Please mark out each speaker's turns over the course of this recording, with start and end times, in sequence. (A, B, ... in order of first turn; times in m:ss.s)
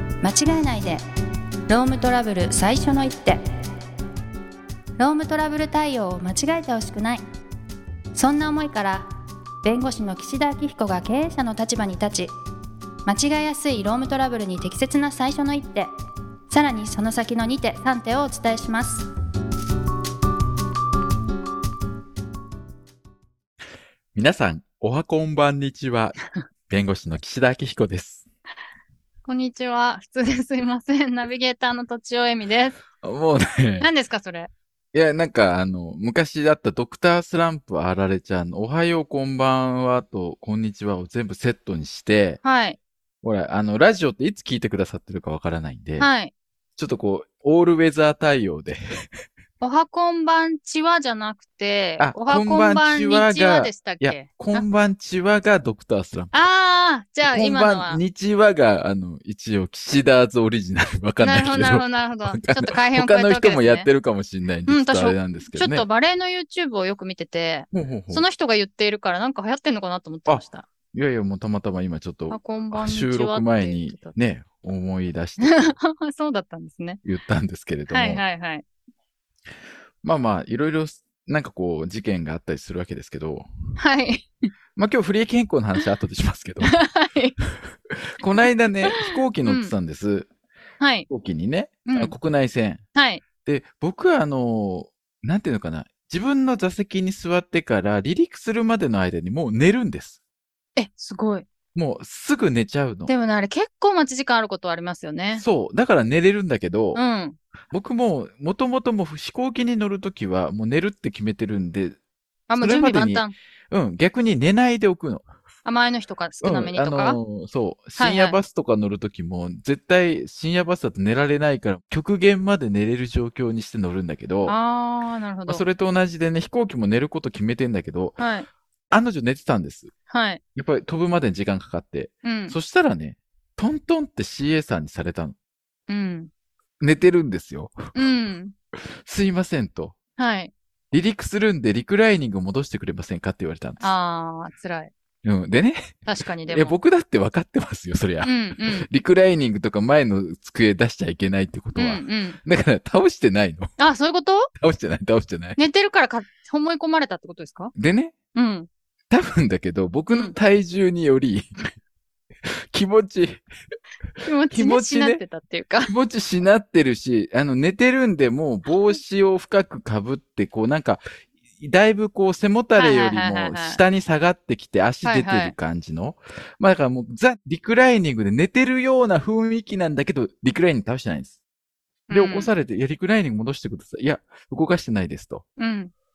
0:00.2-0:01.0 A
0:01.7-0:03.4 A
0:05.0-0:07.2 A
0:08.1-0:09.1 A
0:09.6-0:12.3 A
0:13.0-0:15.9 A
0:16.5-0:19.0 A
0:24.1-0:26.2 B
0:26.7-0:28.2 B
0:29.2-0:32.8 C
0:33.0-0:33.9 B
0:33.8-0:34.5 C
0:34.9-0:42.4 B
0:42.4-0:42.8 C
0:43.2-0:46.1 B
0:46.0-0:46.3 C
0:46.8-0:48.8 B
0:49.6-0:54.6 C
0:52.0-0:56.4 B
0:56.3-0:58.0 C
0:57.2-1:05.9 B
1:01.2-1:03.9 C
1:04.7-1:10.7 C
1:07.7-1:08.2 B
1:10.3-1:15.8 B
1:12.3-1:14.2 C
1:15.4-1:17.0 C
1:17.0-1:18.2 B
1:17.9-1:18.6 C
1:20.0-1:23.5 B
1:23.8-1:24.5 C
1:24.8-1:26.8 B
1:26.6-1:27.3 C
1:27.9-1:30.3 B
1:28.9-1:29.7 C
1:30.8-1:31.1 C
1:31.1-1:32.8 B
1:31.8-1:32.1 C
1:32.9-1:33.2 C
1:33.4-1:40.2 B
1:40.8-1:41.4 C
1:41.7-1:43.1 B
1:43.1-1:45.4 C
1:45.3-1:47.0 B
1:46.9-1:47.4 C
1:47.7-1:52.0 B
1:52.5-1:53.3 C
1:52.6-1:55.3 B
1:55.6-1:57.2 C
1:56.4-2:04.6 B
1:58.0-1:58.4 C
2:04.4-2:05.6 C
2:05.5-2:08.2 B
2:08.2-2:08.5 C
2:08.9-2:09.9 B
2:10.1-2:10.4 C
2:10.5-2:15.4 B
2:12.2-2:12.6 C
2:15.9-2:16.3 C
2:16.8-2:18.0 B
2:17.9-2:18.5 C
2:19.0-2:20.0 B
2:20.2-2:20.5 C
2:20.9-2:23.9 B
2:23.8-2:24.9 C
2:25.2-2:33.7 B
2:26.1-2:26.8 C
2:28.2-2:28.9 C
2:31.8-2:32.4 C
2:33.8-2:34.5 C
2:34.6-2:35.6 B
2:35.6-2:37.7 C
2:37.7-2:38.2 B
2:38.3-2:38.7 C
2:39.1-2:41.7 B
2:42.4-2:43.4 B
2:44.2-2:45.9 C
2:44.5-2:45.2 B
2:45.8-2:51.0 B
2:48.7-2:49.0 C
2:51.6-3:01.4 B
2:52.8-2:53.8 C
2:55.0-2:55.5 C
3:02.1-3:02.5 C
3:02.1-3:05.4 B
3:05.6-3:05.9 C